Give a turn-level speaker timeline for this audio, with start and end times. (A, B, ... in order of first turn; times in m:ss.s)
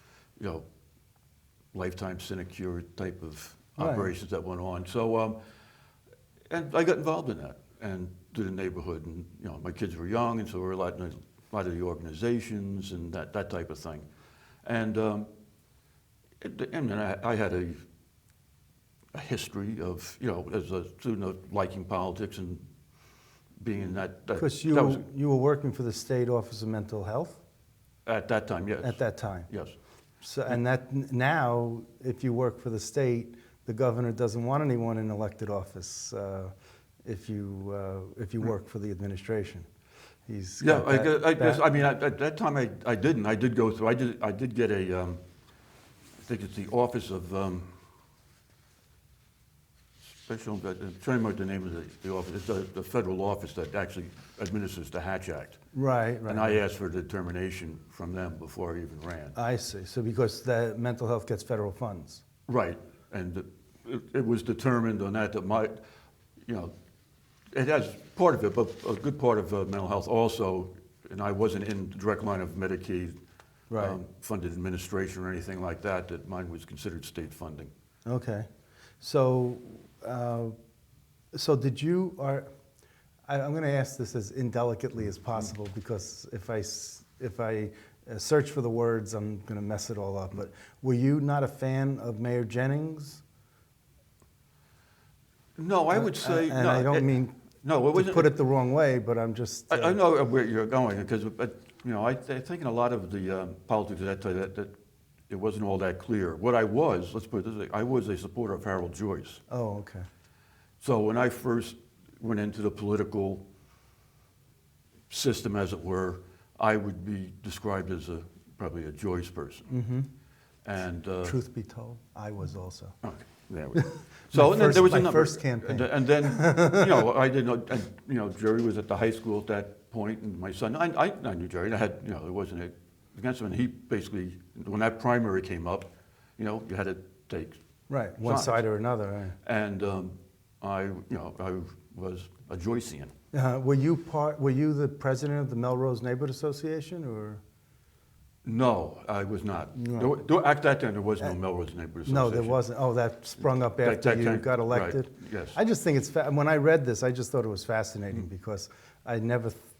0:00.4-0:00.6 A
0:01.7-0:05.4 A
0:03.8-0:04.1 B
0:06.5-0:14.1 A
0:14.6-0:15.3 A
0:16.4-0:17.8 A
0:19.1-0:22.6 A
0:23.6-0:25.0 A
0:24.4-0:27.4 B
0:28.0-0:29.8 A
0:28.8-0:29.5 B
0:30.2-0:36.5 B
0:37.0-0:39.6 B
0:40.3-0:41.6 B
0:40.6-0:45.2 A
0:46.2-0:47.7 A
0:50.2-0:55.6 A
0:55.7-0:56.6 B
0:56.3-0:59.4 A
0:59.4-1:02.2 B
1:02.5-1:05.8 A
1:06.4-1:06.7 A
1:07.5-1:13.2 A
1:13.7-1:14.0 B
1:13.7-1:17.7 A
1:18.0-1:18.5 B
1:19.0-1:20.5 B
1:21.3-1:22.5 B
1:23.3-1:33.2 B
1:35.6-1:37.1 A
1:35.9-1:37.4 B
1:37.6-1:38.4 A
1:37.9-1:40.0 B
1:39.7-1:44.7 A
1:45.3-1:49.4 A
1:49.5-1:50.0 B
1:50.8-1:53.4 A
1:55.1-1:59.7 A
1:59.7-2:00.1 B
2:00.6-2:01.4 A
2:01.2-2:03.0 B
2:03.0-2:17.6 A
2:03.8-2:07.1 B
2:17.9-2:19.4 B
2:18.2-2:18.6 A
2:19.4-2:23.1 A
2:23.3-2:27.4 B
2:28.4-2:32.6 A
2:29.8-2:30.1 B
2:32.0-2:39.6 B
2:33.4-2:35.6 A